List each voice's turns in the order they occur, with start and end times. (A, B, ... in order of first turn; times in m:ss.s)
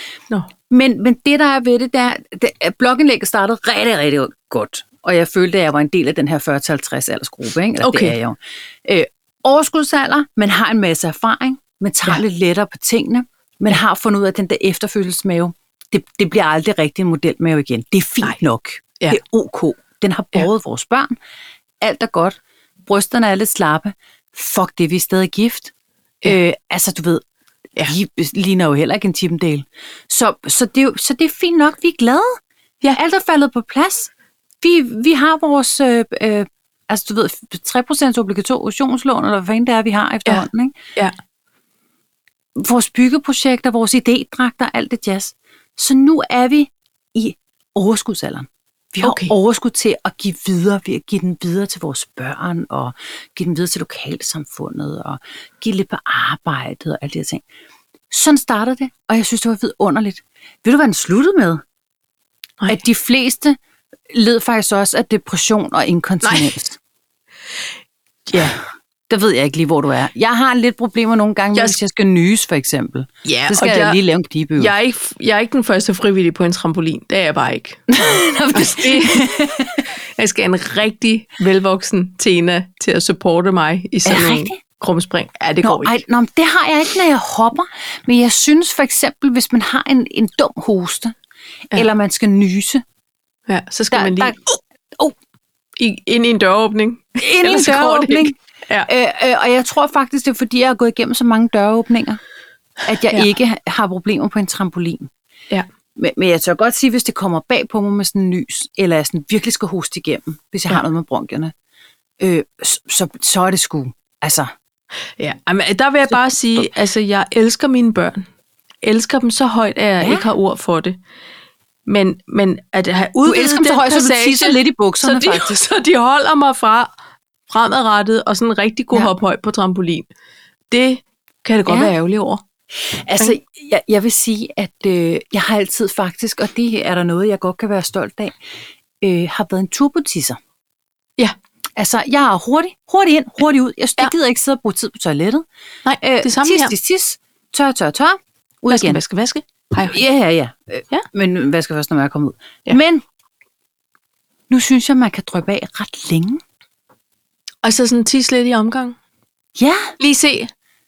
0:00.7-0:21.1 A
0:07.8-0:08.2 B
0:21.8-0:25.7 A
0:26.2-0:27.2 A
0:27.8-0:32.4 A
0:32.9-0:34.1 A
0:34.6-0:40.7 A
0:40.2-0:41.1 B
0:42.6-0:57.4 A
0:49.0-0:49.3 B
0:58.1-1:01.6 A
1:02.7-1:03.6 A
1:04.1-1:06.8 A
1:06.2-1:06.5 B
1:08.3-1:08.6 B
1:08.4-1:14.7 A
1:13.2-1:14.0 B
1:14.6-1:17.8 B
1:17.9-1:19.8 A
1:18.5-1:26.0 B
1:24.0-1:24.6 A
1:25.6-1:31.1 A
1:31.7-1:32.8 A
1:33.5-1:34.3 B
1:33.9-1:35.1 A
1:35.8-1:38.9 B
1:37.2-1:42.2 A
1:42.8-1:45.1 A
1:46.0-1:51.5 A
1:52.2-1:54.5 A
1:55.2-1:58.3 B
1:56.1-1:56.7 A
1:58.8-2:01.0 B
2:00.0-2:00.3 A
2:01.9-2:06.9 B
2:03.2-2:05.5 A
2:07.5-2:10.1 B
2:10.7-2:12.4 B
2:11.7-2:11.9 A
2:12.8-2:18.3 A
2:19.0-2:20.4 A
2:21.8-2:25.4 A
2:25.8-2:26.7 B
2:26.0-2:29.0 A
2:28.7-2:30.0 B
2:29.8-2:33.0 A
2:34.5-2:36.4 A
2:37.6-2:39.0 B
2:39.6-2:39.9 A
2:40.0-2:40.5 B